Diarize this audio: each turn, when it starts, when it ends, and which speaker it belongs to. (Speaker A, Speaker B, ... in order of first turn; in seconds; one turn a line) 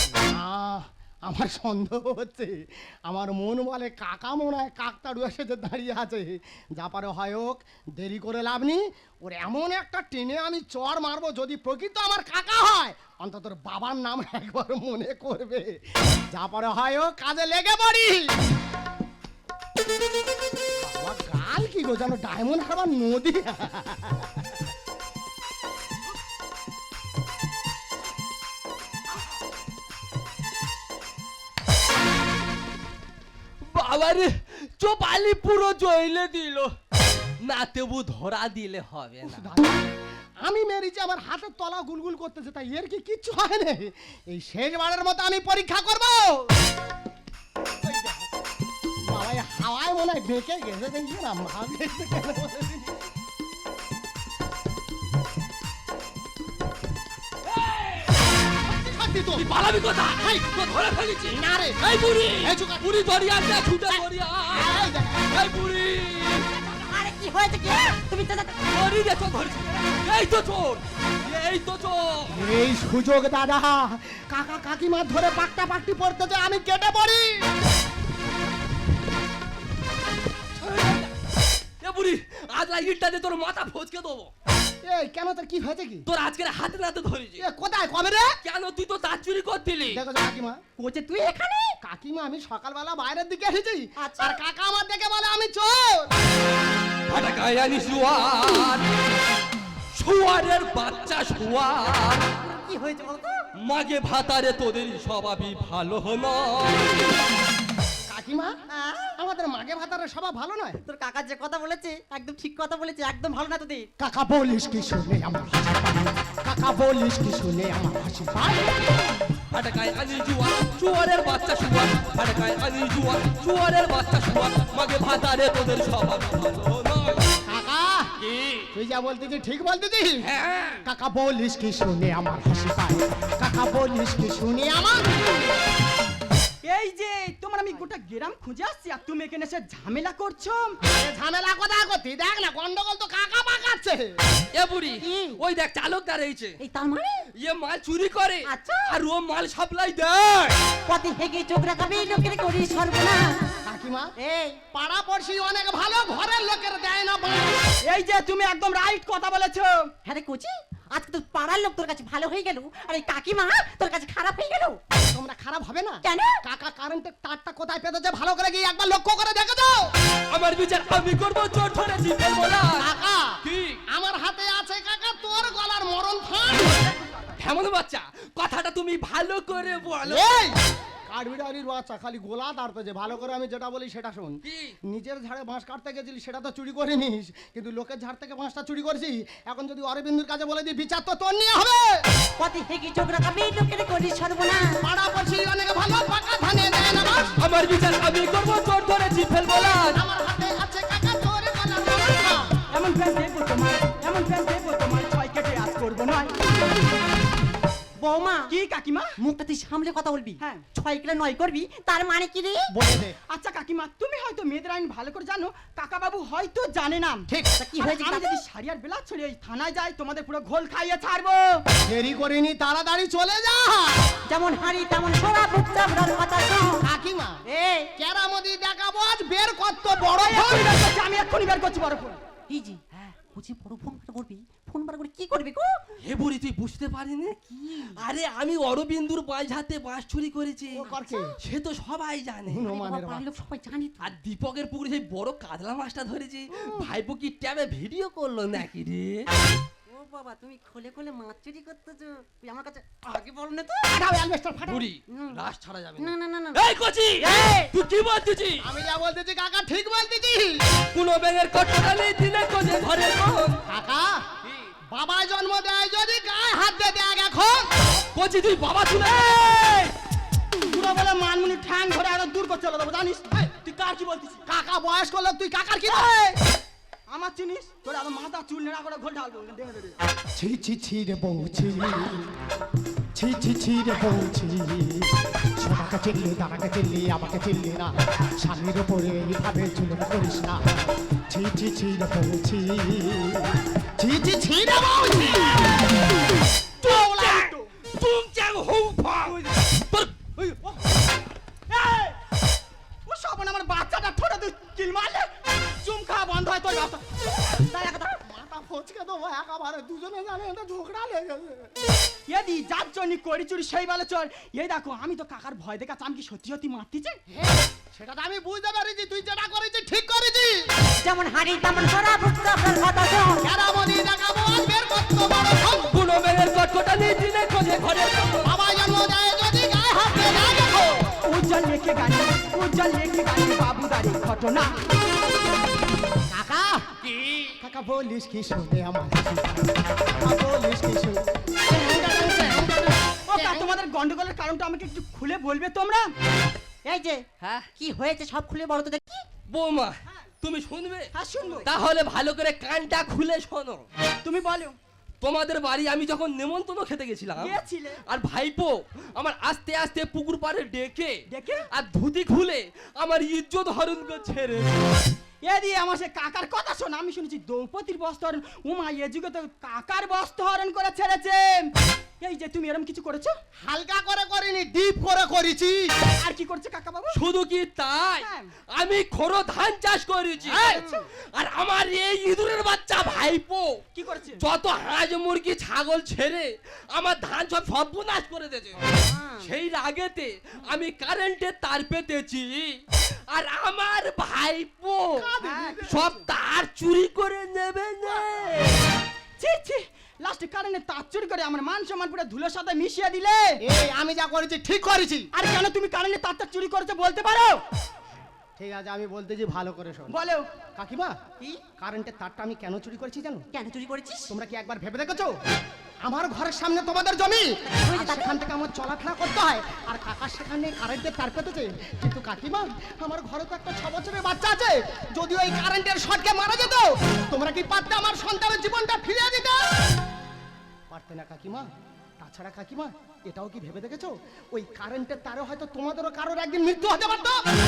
Speaker A: 0.3-15.8
Speaker A: 16.3-18.3
Speaker A: 20.8-24.5
Speaker B: 33.6-36.7
Speaker B: 37.4-39.5
Speaker A: 39.2-39.9
Speaker A: 40.4-46.5
Speaker A: 47.8-48.3
Speaker A: 49.1-53.0
Speaker B: 57.6-58.0
Speaker A: 58.6-59.5
Speaker B: 59.3-66.5
Speaker A: 61.3-61.8
Speaker A: 62.4-62.9
Speaker A: 64.5-65.3
Speaker C: 66.5-68.6
Speaker B: 68.7-72.4
Speaker A: 72.3-77.4
Speaker B: 80.6-81.1
Speaker B: 81.8-84.3
Speaker A: 84.8-86.0
Speaker B: 86.1-87.4
Speaker A: 87.4-88.4
Speaker B: 88.4-90.0
Speaker A: 89.9-90.6
Speaker C: 90.8-91.8
Speaker A: 91.8-96.1
Speaker C: 94.0-94.4
Speaker B: 97.1-98.9
Speaker B: 99.9-102.2
Speaker C: 102.3-103.4
Speaker B: 103.6-107.1
Speaker A: 108.1-108.5
Speaker C: 108.7-109.1
Speaker A: 109.2-110.8
Speaker C: 110.8-113.9
Speaker A: 114.0-118.8
Speaker B: 119.5-127.2
Speaker A: 127.4-128.1
Speaker B: 128.2-128.7
Speaker A: 128.7-130.3
Speaker B: 130.2-130.8
Speaker A: 130.8-135.1
Speaker D: 136.6-140.8
Speaker A: 140.9-144.1
Speaker B: 144.5-146.6
Speaker C: 145.0-145.4
Speaker C: 146.6-147.3
Speaker B: 147.4-150.6
Speaker C: 148.4-148.9
Speaker C: 150.9-153.4
Speaker A: 153.6-154.1
Speaker C: 154.2-154.6
Speaker A: 154.7-157.6
Speaker D: 157.9-159.9
Speaker C: 160.0-164.8
Speaker A: 165.1-169.9
Speaker C: 166.0-166.4
Speaker B: 170.3-172.9
Speaker A: 172.8-176.8
Speaker B: 173.4-173.8
Speaker B: 177.4-180.4
Speaker A: 180.0-184.4
Speaker B: 184.4-184.8
Speaker A: 184.9-192.0
Speaker C: 192.4-194.7
Speaker A: 194.8-197.3
Speaker B: 197.4-200.0
Speaker A: 199.9-202.5
Speaker D: 202.7-206.5
Speaker C: 208.0-208.5
Speaker D: 208.5-209.2
Speaker C: 209.2-212.7
Speaker D: 210.4-210.6
Speaker A: 212.7-213.2
Speaker D: 213.3-217.3
Speaker A: 217.3-217.5
Speaker C: 217.6-218.3
Speaker D: 217.8-221.6
Speaker A: 221.8-224.1
Speaker C: 224.3-226.8
Speaker A: 226.8-227.4
Speaker C: 227.4-227.9
Speaker A: 227.9-230.8
Speaker D: 230.2-232.2
Speaker C: 232.5-235.8
Speaker B: 236.0-240.9
Speaker C: 237.5-238.0
Speaker A: 240.7-241.3
Speaker C: 240.8-241.4
Speaker B: 241.4-242.7
Speaker A: 242.5-243.3
Speaker C: 242.7-244.2
Speaker B: 244.0-249.3
Speaker C: 249.9-253.9
Speaker A: 253.9-254.8
Speaker B: 254.7-258.7
Speaker C: 255.1-255.4
Speaker C: 256.0-256.6
Speaker C: 257.2-257.7
Speaker A: 258.6-260.6
Speaker B: 260.9-263.6
Speaker A: 263.7-264.3
Speaker B: 264.4-264.7
Speaker A: 264.9-267.7
Speaker B: 268.1-269.9
Speaker D: 269.2-269.9
Speaker D: 270.7-274.4
Speaker A: 274.5-276.4
Speaker D: 277.1-280.0
Speaker A: 280.4-282.2
Speaker A: 283.1-290.6
Speaker A: 291.3-295.8
Speaker D: 296.8-297.7
Speaker B: 296.8-300.6
Speaker D: 301.7-302.1
Speaker D: 303.1-307.2
Speaker C: 307.5-308.2
Speaker A: 308.2-311.7
Speaker D: 312.3-317.2
Speaker A: 317.3-320.6
Speaker C: 321.0-323.4
Speaker A: 323.4-325.9
Speaker B: 325.9-328.5
Speaker A: 328.4-331.1
Speaker D: 331.2-334.8
Speaker A: 336.3-336.9
Speaker B: 337.0-337.5
Speaker A: 337.6-343.8
Speaker D: 343.3-346.1
Speaker C: 346.8-347.2
Speaker B: 347.4-347.7
Speaker C: 347.8-349.2
Speaker B: 349.5-351.1
Speaker D: 351.1-351.7
Speaker B: 351.6-353.8
Speaker D: 354.2-354.7
Speaker B: 355.2-357.5
Speaker D: 357.4-358.0
Speaker B: 358.1-365.0
Speaker D: 361.3-361.7
Speaker D: 365.4-373.4
Speaker A: 373.6-375.9
Speaker D: 376.2-377.2
Speaker B: 377.1-383.8
Speaker D: 378.2-378.5
Speaker A: 380.5-380.8
Speaker C: 380.5-381.1
Speaker D: 383.9-384.4
Speaker B: 384.4-388.8
Speaker C: 388.9-389.5
Speaker B: 389.4-395.3
Speaker A: 395.1-395.9
Speaker D: 395.4-396.1
Speaker B: 395.9-398.8
Speaker D: 399.4-403.6
Speaker A: 403.6-405.3
Speaker D: 405.3-407.6
Speaker A: 408.6-410.1
Speaker D: 410.1-410.5
Speaker A: 410.8-411.2
Speaker A: 411.8-413.4
Speaker C: 413.5-414.3
Speaker A: 414.3-415.3
Speaker A: 416.0-429.7
Speaker C: 417.6-418.4
Speaker A: 430.9-431.7
Speaker A: 432.2-437.4